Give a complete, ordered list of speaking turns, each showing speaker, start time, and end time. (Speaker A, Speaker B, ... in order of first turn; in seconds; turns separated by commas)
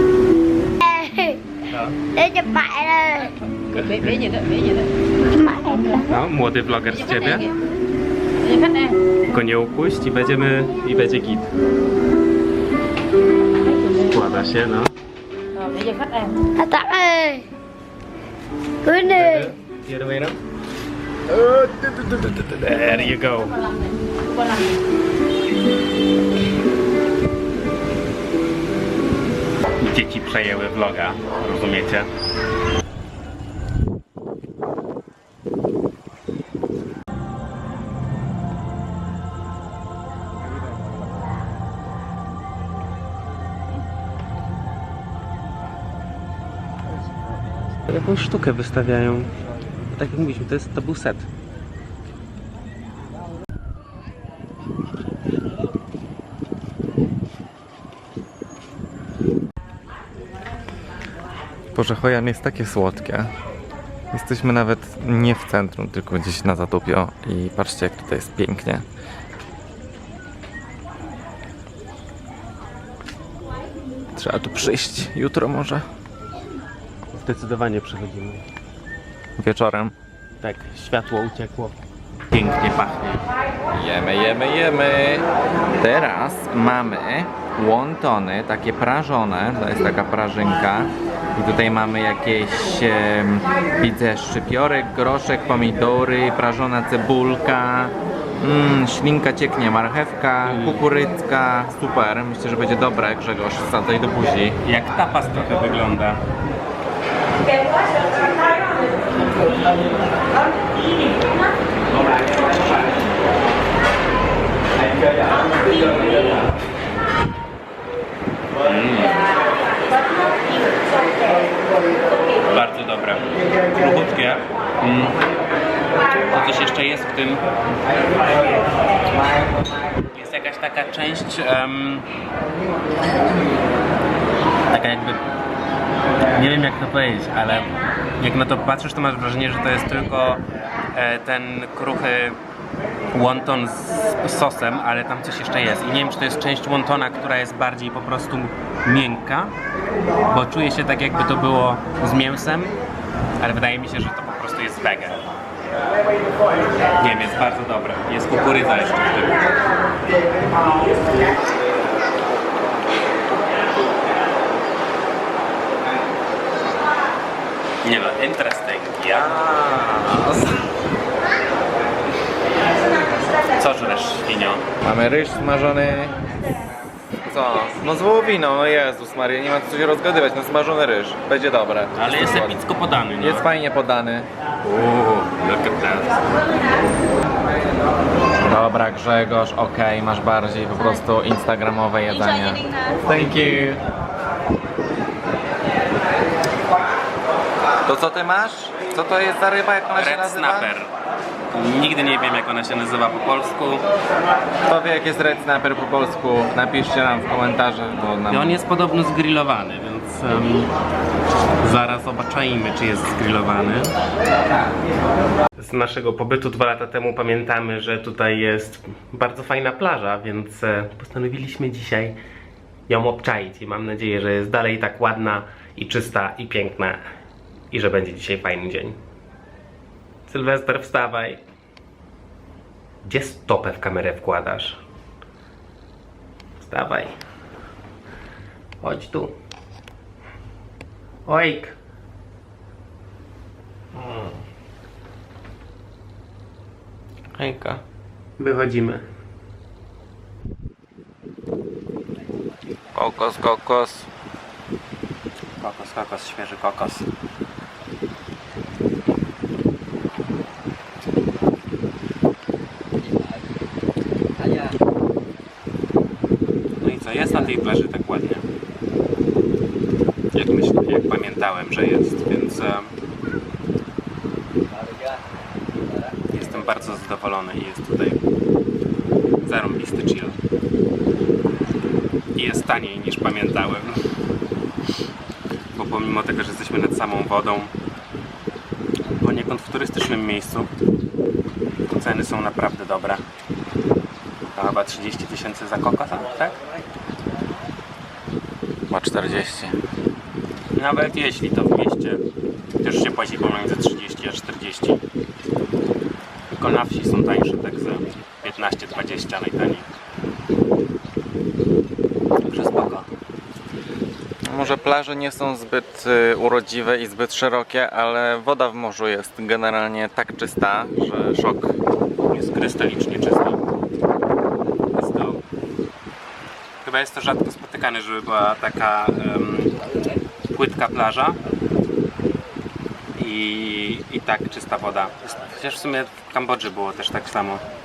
Speaker A: 0.8-1.4, Speaker B: 1.7-2.0, Speaker A: 2.1-3.4, Speaker B: 3.7-4.6, Speaker A: 4.5-6.1, Speaker B: 6.1-7.5, Speaker A: 8.4-9.0, Speaker B: 9.3-11.5, Speaker B: 13.8-14.9, Speaker A: 15.6-17.5, Speaker A: 18.8-19.5, Speaker B: 19.1-20.4, Speaker B: 21.3-23.7, Speaker A: 24.3-24.7, Speaker B: 29.8-32.1, Speaker B: 47.9-49.3, Speaker B: 49.9-51.3, Speaker C: 61.8-63.3, Speaker C: 64.1-68.8, Speaker C: 74.2-75.8, Speaker B: 77.1-78.5, Speaker C: 79.4-79.9, Speaker B: 80.4-81.8, Speaker B: 82.3-83.3, Speaker C: 83.7-104.6, Speaker B: 100.5-100.8, Speaker B: 104.6-106.2, Speaker B: 112.1-112.9, Speaker B: 118.6-119.3, Speaker B: 122.4-125.2, Speaker B: 126.3-127.5, Speaker B: 130.1-132.1, Speaker B: 134.7-135.2, Speaker B: 136.3-140.4, Speaker B: 140.9-142.4, Speaker B: 143.1-149.6, Speaker B: 150.3-152.8, Speaker B: 153.4-155.3, Speaker B: 157.0-159.6, Speaker B: 167.8-169.4, Speaker C: 169.1-170.6, Speaker B: 173.3-174.7, Speaker C: 174.8-176.2, Speaker C: 177.2-182.6, Speaker B: 181.9-183.5, Speaker C: 183.2-184.3, Speaker B: 184.7-186.1, Speaker C: 185.0-185.7, Speaker C: 188.4-193.8, Speaker C: 197.8-200.8, Speaker B: 199.9-200.9, Speaker B: 201.5-203.9, Speaker C: 204.7-208.6, Speaker B: 208.3-210.7, Speaker B: 211.6-214.0, Speaker B: 215.6-222.2, Speaker B: 222.9-227.0, Speaker B: 227.7-229.0, Speaker B: 230.3-231.4, Speaker B: 233.0-234.8, Speaker B: 236.6-237.2, Speaker B: 238.8-239.3, Speaker B: 241.3-241.8, Speaker B: 243.9-244.4, Speaker C: 247.3-247.8, Speaker B: 248.4-249.1, Speaker C: 252.9-254.1, Speaker B: 255.6-257.1, Speaker B: 266.8-268.5, Speaker B: 270.3-272.9, Speaker B: 276.3-278.2, Speaker B: 279.4-280.4, Speaker B: 282.4-284.0, Speaker B: 285.8-287.7, Speaker B: 289.2-290.7, Speaker B: 291.9-293.2, Speaker B: 294.6-296.6, Speaker C: 298.9-299.8, Speaker B: 300.7-302.2, Speaker B: 302.8-305.0, Speaker B: 306.5-309.9, Speaker B: 312.4-313.1, Speaker C: 314.4-321.8, Speaker B: 322.2-323.6, Speaker B: 324.9-325.4, Speaker B: 326.8-329.7, Speaker B: 330.5-331.4, Speaker B: 333.2-337.6